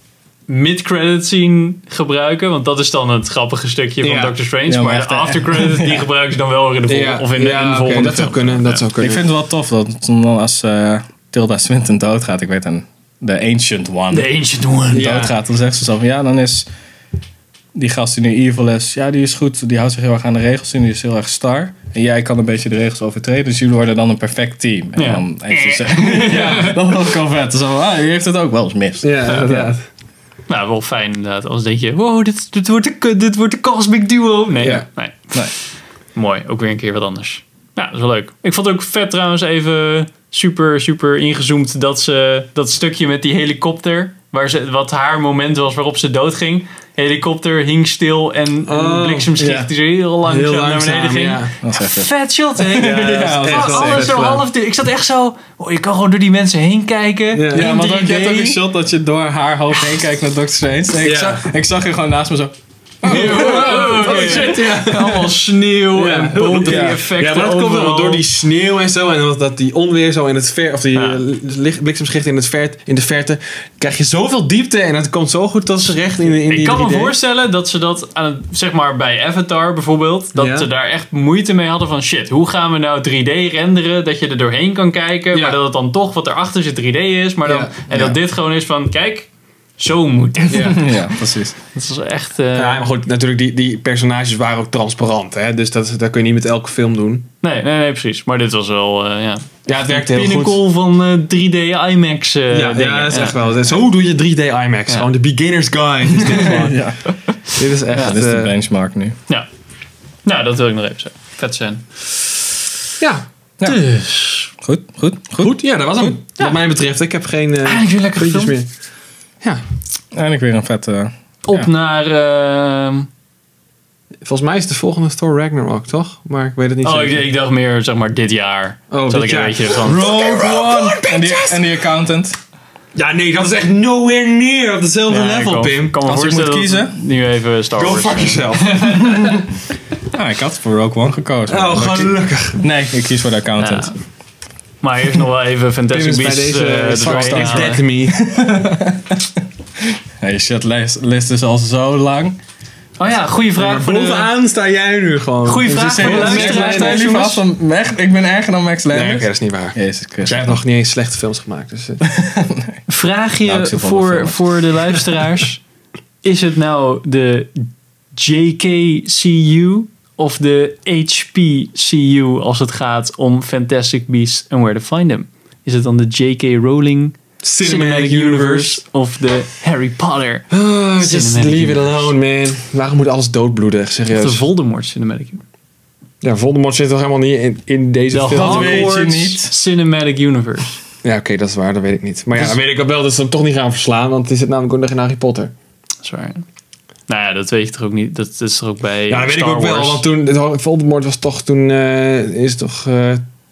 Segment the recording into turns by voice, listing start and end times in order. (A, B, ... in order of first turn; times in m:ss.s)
0:00.5-0:08.8 A
0:04.0-0:04.4 B
0:04.7-0:06.1 C
0:06.9-0:09.2 B
0:09.0-0:14.3 C
0:14.1-0:15.1 A
0:14.9-0:15.3 B
0:14.9-0:16.7 C
0:17.7-0:29.7 C
0:25.0-0:26.8 A
0:26.3-0:26.6 B
0:29.0-0:29.8 B
0:30.5-0:35.6 A
0:34.6-0:34.8 B
0:36.1-0:58.2 A
0:48.7-0:49.4 B
0:49.4-0:49.7 C
0:50.2-0:51.5 B
0:51.6-0:54.1 C
0:52.7-0:54.4 B
0:57.3-0:58.6 B
0:57.5-1:04.5 C
1:01.0-1:01.4 B
1:03.0-1:08.2 A
1:03.0-1:17.1 B
1:06.6-1:07.0 C
1:10.9-1:11.2 A
1:16.5-1:30.9 A
1:20.3-1:20.7 B
1:25.3-1:25.6 B
1:27.4-1:28.2 B
1:30.5-1:30.8 B
1:30.5-1:31.6 C
1:31.7-1:32.8 A
1:32.5-1:37.2 B
1:37.4-1:43.4 A
1:39.6-1:40.6 B
1:42.5-1:46.8 B
1:46.2-1:47.4 C
1:47.5-1:48.5 B
1:47.9-1:49.2 C
1:50.2-1:51.9 A
1:53.0-1:53.2 B
1:53.6-1:54.5 A
1:54.6-1:56.1 C
1:55.4-1:58.7 B
1:57.6-1:58.6 A
2:00.1-2:01.7 C
2:01.4-2:03.1 A
2:04.2-2:07.2 B
2:06.8-2:10.1 A
2:08.9-2:11.7 B
2:09.8-2:12.4 C
2:12.9-2:16.0 B
2:15.1-2:19.4 A
2:16.0-2:16.9 C
2:17.8-2:19.4 B
2:20.1-2:23.9 C
2:21.5-2:22.6 B
2:23.6-2:23.9 A
2:24.8-2:27.8 A
2:25.9-2:28.2 B
2:27.0-2:32.4 C
2:33.0-2:34.3 A
2:33.6-2:37.1 B
2:35.4-2:37.4 A
2:35.6-2:40.6 C
2:38.9-2:42.0 B
2:42.0-2:42.8 C
2:42.9-2:45.6 A
2:43.4-2:44.4 C
2:46.2-3:00.5 A
2:57.4-2:58.8 B
3:00.5-3:04.4 B
3:01.0-3:02.1 A
3:04.1-3:05.4 A
3:06.2-3:08.9 B
3:08.1-3:10.8 A
3:08.3-3:09.5 C
3:11.0-3:15.5 B
3:16.0-3:16.4 A
3:17.1-3:20.0 A
3:19.1-3:23.2 B